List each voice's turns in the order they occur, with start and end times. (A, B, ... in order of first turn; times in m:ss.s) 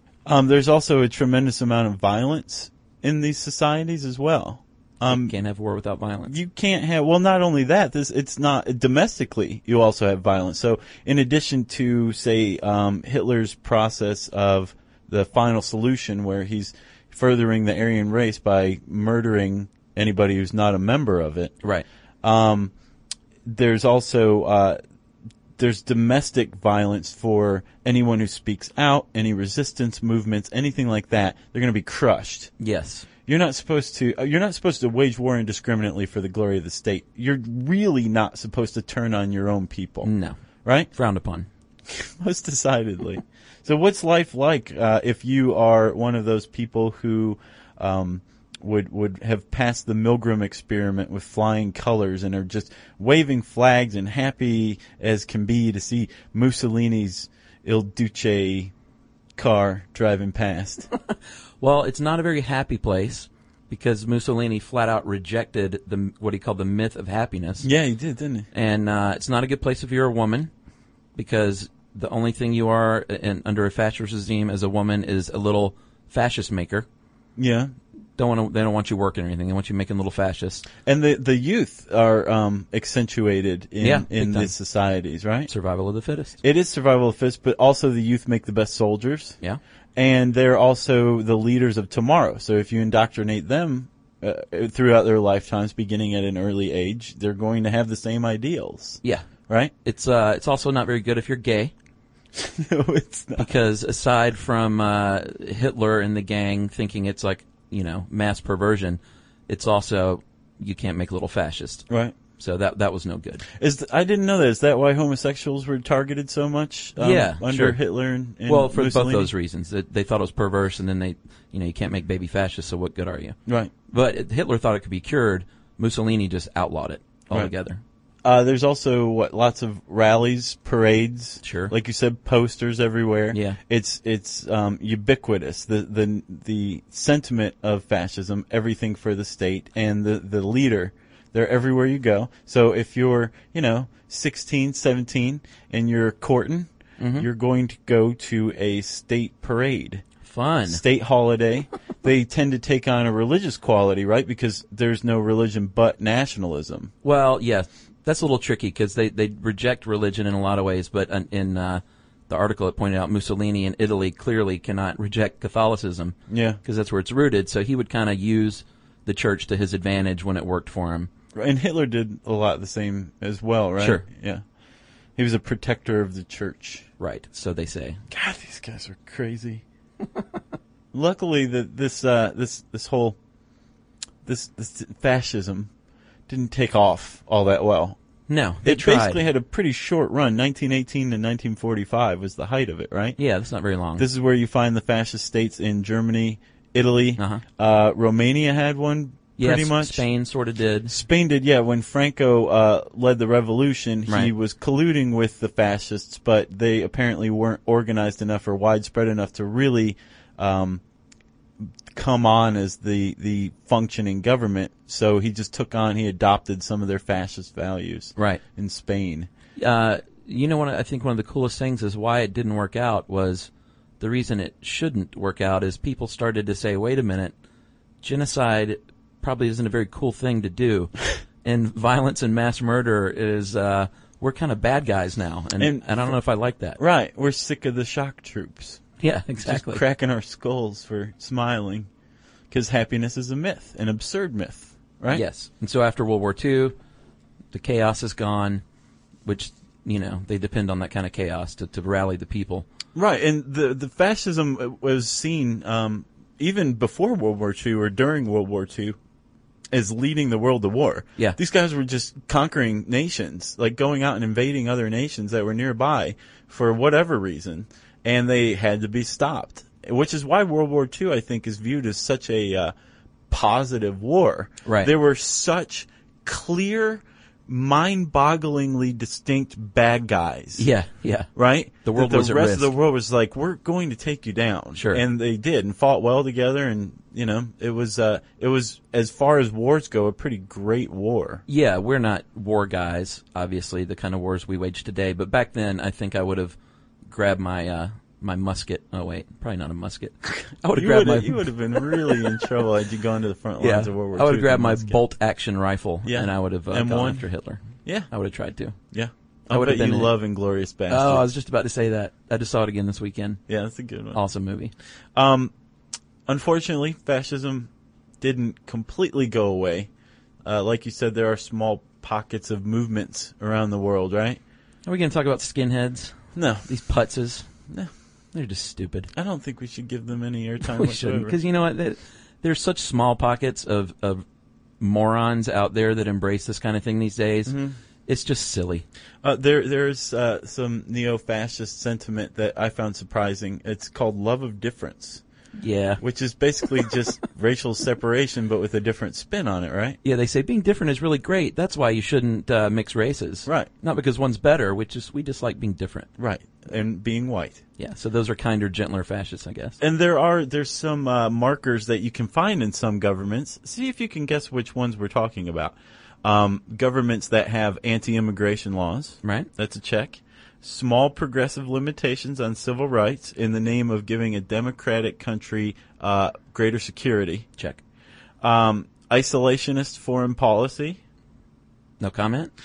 0:00.3-0:05.4 A
0:05.0-0:06.4 B
0:06.3-0:21.6 A
0:22.2-0:22.7 A
0:23.4-0:24.8 A
0:25.6-0:32.5 A
0:32.6-0:33.1 B
0:33.3-0:40.1 A
0:40.0-0:40.4 B
0:40.6-0:40.9 A
0:40.9-0:41.5 B
0:41.9-0:58.7 A
0:59.4-1:00.9 A
1:00.9-1:07.7 B
1:07.6-1:08.5 A
1:08.5-1:10.5 B
1:11.2-1:16.9 B
1:17.4-1:17.7 A
1:18.2-1:20.7 B
1:20.8-1:25.5 A
1:23.8-1:24.5 B
1:25.5-1:26.4 B
1:26.4-1:29.4 A
1:30.0-1:39.7 A
1:39.8-1:41.7 B
1:42.4-1:43.5 A
1:43.4-1:51.9 B
1:51.9-1:52.2 A
1:52.4-1:53.4 B
1:53.5-1:59.3 A
1:57.0-1:57.8 B
1:58.5-2:03.4 B
2:03.5-2:03.7 A
2:03.9-2:07.8 B
2:08.2-2:30.0 A
2:11.4-2:11.7 B
2:13.3-2:13.6 B
2:27.0-2:27.3 B
2:30.2-2:30.8 B
2:30.7-2:36.9 A
2:37.0-2:51.1 B
2:46.3-2:46.6 A
2:51.4-2:54.4 A
2:53.8-2:54.0 B
2:55.2-2:56.9 A
2:57.0-2:58.0 B
2:58.1-2:59.6 A
3:00.9-3:03.2 A
3:04.3-3:05.7 A
3:06.3-3:08.0 A
3:08.3-3:09.2 B
3:08.6-3:13.2 A
3:13.2-3:14.1 B
3:14.0-3:20.0 A
3:17.2-3:17.4 B
3:19.4-3:20.9 B
3:20.9-3:30.8 A
3:31.9-3:39.3 A
3:38.2-3:38.4 B
3:39.6-3:43.5 B
3:44.0-3:47.3 B
3:48.0-3:56.8 B
3:55.6-3:56.1 A
3:56.8-3:58.8 A
3:59.0-3:59.8 B
3:59.4-4:01.9 A
4:02.5-4:05.3 A
4:05.1-4:06.8 B
4:07.5-4:08.6 B
4:09.2-4:12.7 B
4:13.0-4:19.0 A
4:19.7-4:32.7 A
4:33.3-4:40.7 A
4:34.7-4:34.9 B
4:40.6-4:41.3 B
4:41.4-4:51.4 A
4:41.8-4:42.7 B
4:44.8-4:45.0 B
4:51.5-4:56.6 B
4:57.1-5:02.3 B
5:00.7-5:05.0 A
5:03.6-5:08.8 B
5:06.1-5:07.3 A
5:07.8-5:08.1 A
5:08.9-5:11.3 A
5:09.5-5:10.1 B
5:10.9-5:13.4 B
5:13.5-5:14.2 A
5:14.1-5:14.7 B
5:15.2-5:15.5 A
5:16.3-5:17.7 A
5:18.2-5:19.9 A
5:20.4-5:24.4 A
5:24.9-5:27.5 B
5:26.4-5:26.7 A
5:28.3-5:29.1 B
5:29.2-5:31.4 A
5:30.7-5:34.2 B
5:34.8-5:37.6 B
5:37.5-5:37.8 A
5:38.1-5:38.9 B
5:39.2-5:45.2 A
5:45.6-5:46.0 B
5:46.0-5:50.0 A
5:50.0-5:56.1 B
5:56.2-5:57.6 A
5:57.8-5:59.8 B
5:59.8-6:17.5 A
6:09.2-6:09.5 B
6:18.4-6:21.0 A
6:22.0-6:22.5 B